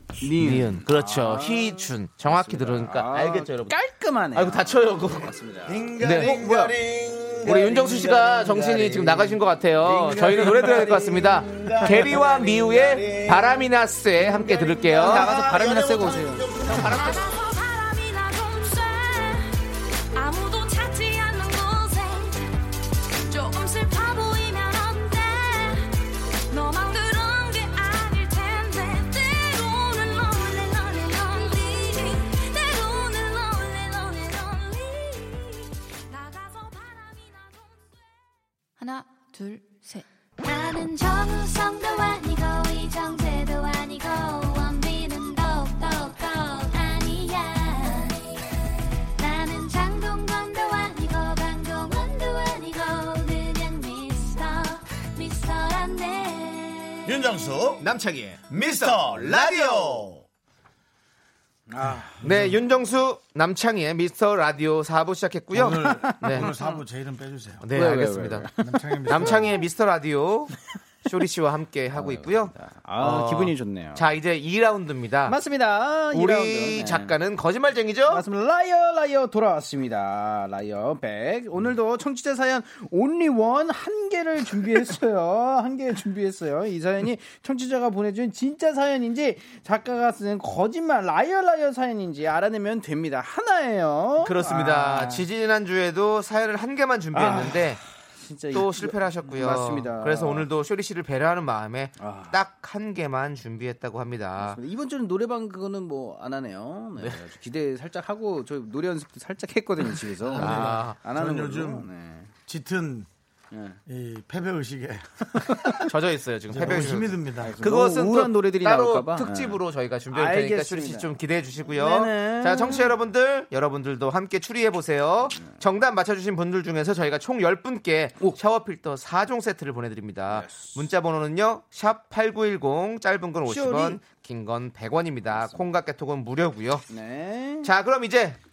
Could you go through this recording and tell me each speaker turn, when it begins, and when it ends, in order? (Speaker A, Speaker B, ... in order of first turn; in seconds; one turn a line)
Speaker A: 0.2-6.7
Speaker B: 0.4-3.8
Speaker B: 4.3-5.3
Speaker C: 5.7-17.3
Speaker B: 6.0-6.4
Speaker B: 7.4-15.4
Speaker A: 10.4-10.9
Speaker A: 14.9-16.6
Speaker B: 16.6-17.2
Speaker D: 17.0-22.5
Speaker D: 23.2-37.7
Speaker D: 38.8-48.5
Speaker D: 49.1-57.2
Speaker C: 57.0-57.9
Speaker B: 57.8-60.1
Speaker C: 58.5-60.2
Speaker A: 61.7-62.2
Speaker C: 62.2-62.6
Speaker B: 62.2-66.5
Speaker C: 65.5-67.7
Speaker A: 65.8-66.7
Speaker B: 67.6-68.5
Speaker A: 67.7-69.5
Speaker C: 68.6-69.6
Speaker B: 69.0-75.4
Speaker A: 71.9-74.0
Speaker A: 75.2-77.2
Speaker B: 76.1-78.2
Speaker A: 78.1-95.2
Speaker B: 94.2-97.8
Speaker A: 97.1-100.5
Speaker B: 98.5-104.6
Speaker A: 102.0-102.4
Speaker A: 104.4-112.3
Speaker C: 110.2-111.9
Speaker B: 110.3-111.0
Speaker C: 112.5-113.1
Speaker A: 113.5-113.8
Speaker C: 113.8-115.9
Speaker B: 115.8-136.9
Speaker C: 116.5-117.6
Speaker A: 116.6-123.0
Speaker A: 130.3-130.8
Speaker A: 133.4-134.0
Speaker A: 135.3-135.6
Speaker A: 136.9-137.7
Speaker B: 137.6-138.4